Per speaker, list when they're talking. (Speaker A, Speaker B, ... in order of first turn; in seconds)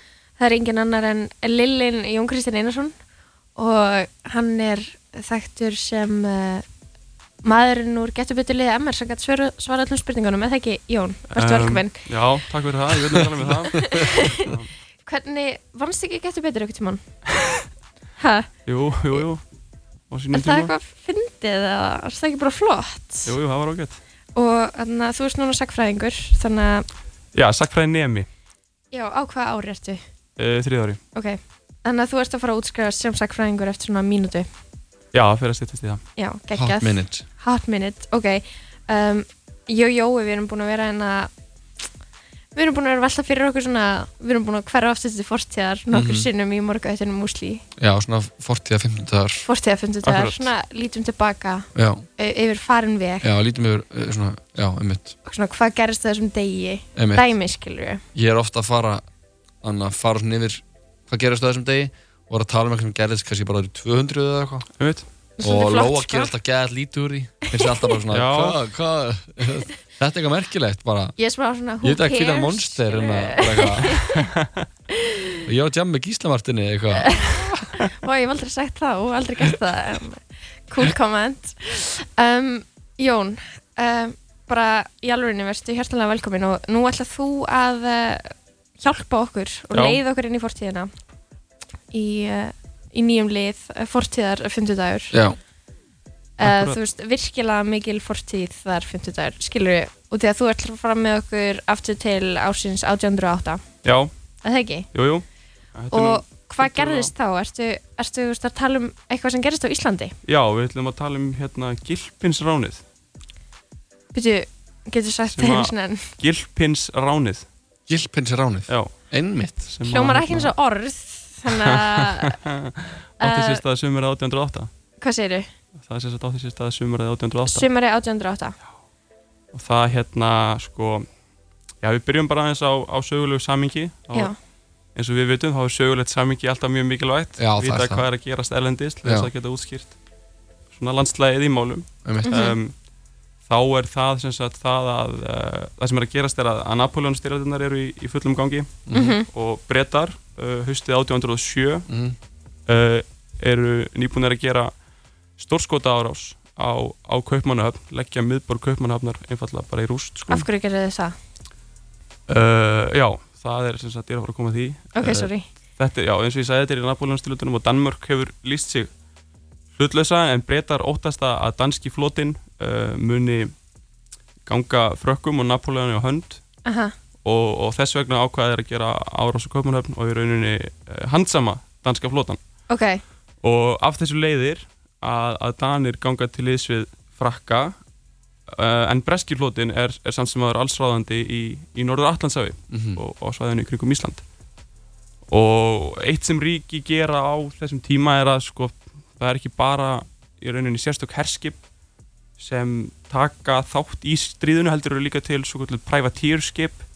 Speaker A: 0.4-2.9, 3.5-6.6, 7.4-11.9, 13.7-14.5, 15.1-17.0, 18.2-18.5, 20.3-23.3, 24.3-26.9, 28.9-30.0, 31.1-34.5, 36.2-41.3, 42.5-47.6, 49.5-53.3, 55.2-58.0, 65.4-66.3, 67.5-67.9, 71.2-74.2, 74.9-75.4, 76.9-90.9, 91.9-95.1, 96.4-103.6, 104.4-104.9, 105.9-110.2, 114.1-116.1, 119.9-122.4, 123.2-123.6, 125.0-125.5, 127.5-128.6, 142.3-142.6, 148.9-149.3, 160.3-161.2, 164.9-165.4, 176.6-176.9, 182.7-183.0
Speaker B: 11.3-14.7, 18.6-19.4, 20.1-20.7, 23.2-24.0, 27.3-28.3, 30.4-31.0, 35.1-36.0, 50.0-50.5, 64.8-65.1, 68.1-68.6, 74.1-74.6, 89.7-90.0, 96.4-96.8, 103.8-104.1, 104.9-107.1, 110.2-112.8, 115.3-117.5, 119.7-120.5, 121.5-124.7, 125.8-127.7, 129.5-131.1, 131.8-134.3, 134.9-139.9, 140.7-142.7, 143.4-151.9, 152.7-154.7, 155.4-160.5, 162.3-168.9, 169.7-173.5, 174.4-176.4, 177.2-182.4, 183.4-187.8, 188.5-194.2, 195.3-201.6, 202.4-206.8
Speaker C: 13.4-14.1, 36.5-37.2, 45.9-46.3, 47.8-49.4, 51.7-52.0, 53.2-55.1, 57.0-57.3, 58.1-59.0, 59.6-64.7, 65.4-71.1, 71.8-74.0, 75.4-77.1, 95.1-95.4, 117.9-119.7, 137.4-138.1, 139.0-139.3, 142.0-142.3, 148.9-149.2, 151.9-152.2, 192.7-193.0